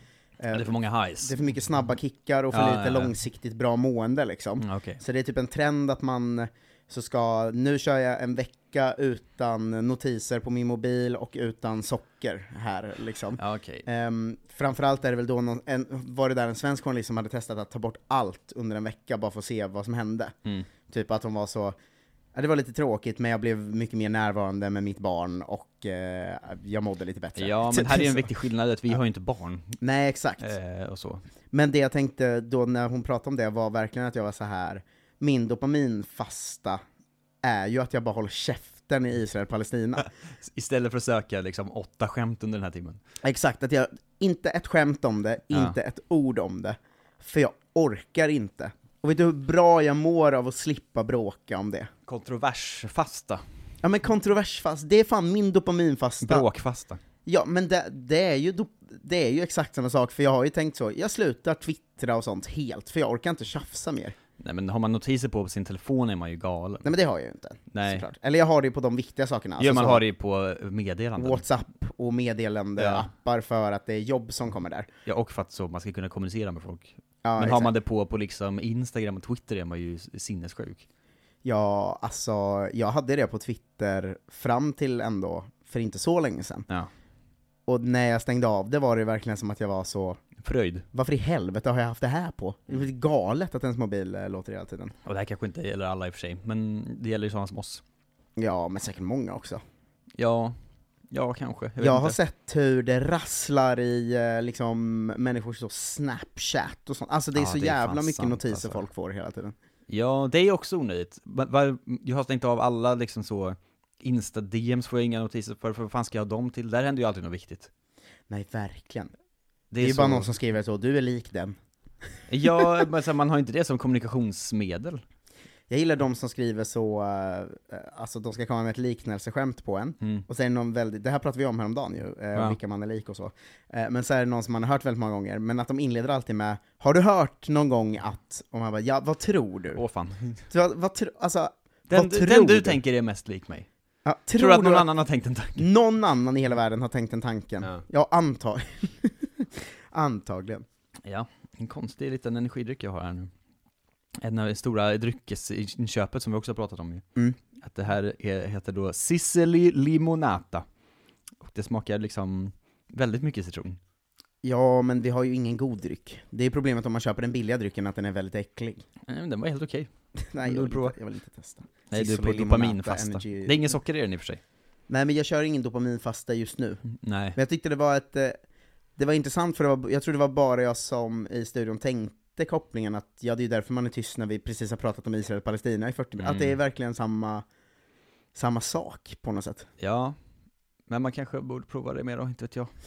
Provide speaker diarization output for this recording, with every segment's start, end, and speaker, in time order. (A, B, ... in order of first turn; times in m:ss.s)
0:00.4-0:20.3 A
0:00.5-0:01.3 B
0:02.5-0:03.1 B
0:04.6-0:05.0 B
0:13.4-0:13.8 B
0:20.9-0:21.7 A
0:22.3-0:28.2 A
0:27.4-0:29.8 B
0:29.8-0:30.5 A
0:30.4-0:31.2 B
0:31.5-0:36.8 A
0:37.4-0:40.0 A
0:40.0-0:43.0 B
0:43.2-0:51.9 A
0:52.1-0:53.4 B
0:53.8-0:56.5 A
0:56.2-0:57.0 B
0:57.2-1:04.1 A
1:04.4-1:06.9 B
1:06.8-1:10.0 A
1:07.7-1:08.0 B
1:09.6-1:11.4 B
1:11.2-1:14.9 A
1:12.8-1:13.1 B
1:15.0-1:20.8 B
1:17.2-1:17.7 A
1:21.4-1:26.7 A
1:27.7-1:30.2 A
1:30.4-1:30.8 B
1:30.9-1:34.9 A
1:35.0-1:37.8 B
1:38.4-1:39.6 A
1:40.2-1:40.6 B
1:41.1-1:42.2 B
1:41.8-1:49.5 A
1:47.3-1:48.8 B
1:49.9-1:57.7 B
1:58.3-1:59.1 A
1:59.7-2:00.3 B
1:59.8-2:01.5 A
2:02.3-2:05.0 B
2:05.7-2:19.8 A
2:19.7-2:20.4 B
2:20.5-2:22.8 A
2:21.9-2:23.7 B
2:24.0-2:24.9 A
2:24.4-2:25.6 B
2:25.6-2:30.6 A
2:31.0-2:33.3 B
2:34.2-2:37.0 B
2:37.6-2:40.6 B
2:41.4-2:43.8 B
2:44.4-2:48.8 A
2:49.1-2:49.9 B
2:50.3-2:53.6 A
2:50.4-2:50.9 B
2:51.9-2:54.4 B
2:54.9-2:56.8 A
2:57.0-2:57.4 B
2:57.3-2:58.4 A
2:59.0-3:07.4 A
3:06.2-3:06.6 B
3:08.3-3:09.7 A
3:09.8-3:10.1 B
3:10.9-3:12.7 B